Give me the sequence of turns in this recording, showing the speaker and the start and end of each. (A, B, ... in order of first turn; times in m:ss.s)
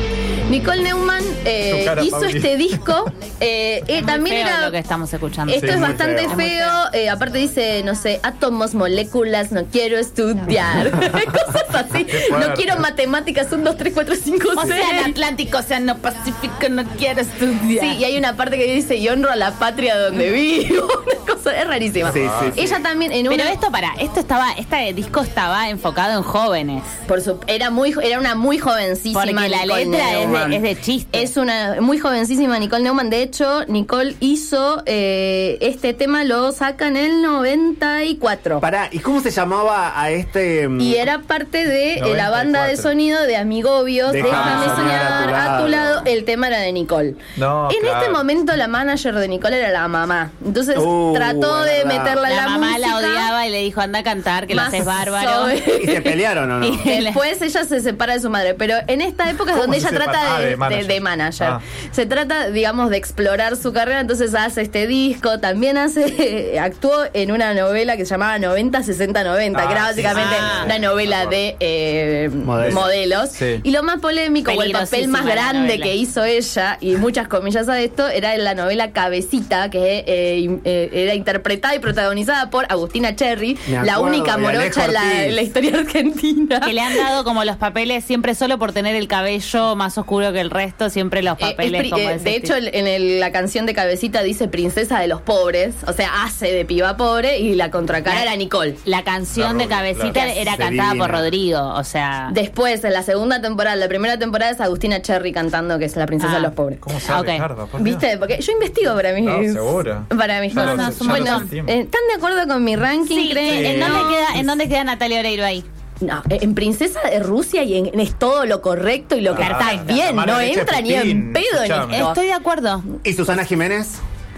0:00.5-0:04.8 A
0:01.6-0:03.0 B
0:04.0-0:06.8 C
0:05.5-0:15.2 A
0:05.6-0:06.4 B
0:12.0-0:12.8 B
0:14.5-0:18.0 C
0:17.7-0:23.6 A
0:22.1-0:22.8 D
0:22.1-0:22.6 B
0:23.3-0:26.9 C
0:27.1-0:38.6 A
0:29.1-0:31.3 C
0:38.6-0:41.1 D
0:40.8-0:53.3 A
0:42.0-0:42.9 B
0:44.1-0:46.0 D
0:44.1-0:45.0 B
0:44.4-0:44.8 C
0:47.4-0:48.2 B
0:50.7-0:52.2 D
0:52.3-0:55.6 C
0:54.5-1:27.0 A
0:55.7-0:56.9 D
0:56.8-0:57.2 C
0:59.5-1:01.6 B
1:09.5-1:11.4 B
1:10.1-1:10.7 C
1:12.4-1:12.9 D
1:12.6-1:13.6 B
1:14.4-1:15.9 C
1:23.7-1:25.4 D
1:26.6-1:32.5 C
1:31.4-1:38.8 A
1:38.8-1:42.3 C
1:39.3-1:40.1 B
1:40.1-1:40.5 A
1:40.5-1:41.3 D
1:42.3-1:46.9 A
1:46.2-1:46.5 C
1:46.8-1:48.0 B
1:47.1-1:47.4 C
1:47.8-1:54.4 A
1:49.2-1:51.8 B
1:50.5-1:51.5 C
1:53.1-1:55.6 C
1:53.4-1:54.4 B
1:56.0-2:02.2 A
1:59.3-2:02.1 B
1:59.4-2:00.0 C
2:01.9-2:02.8 C
2:03.0-2:04.0 D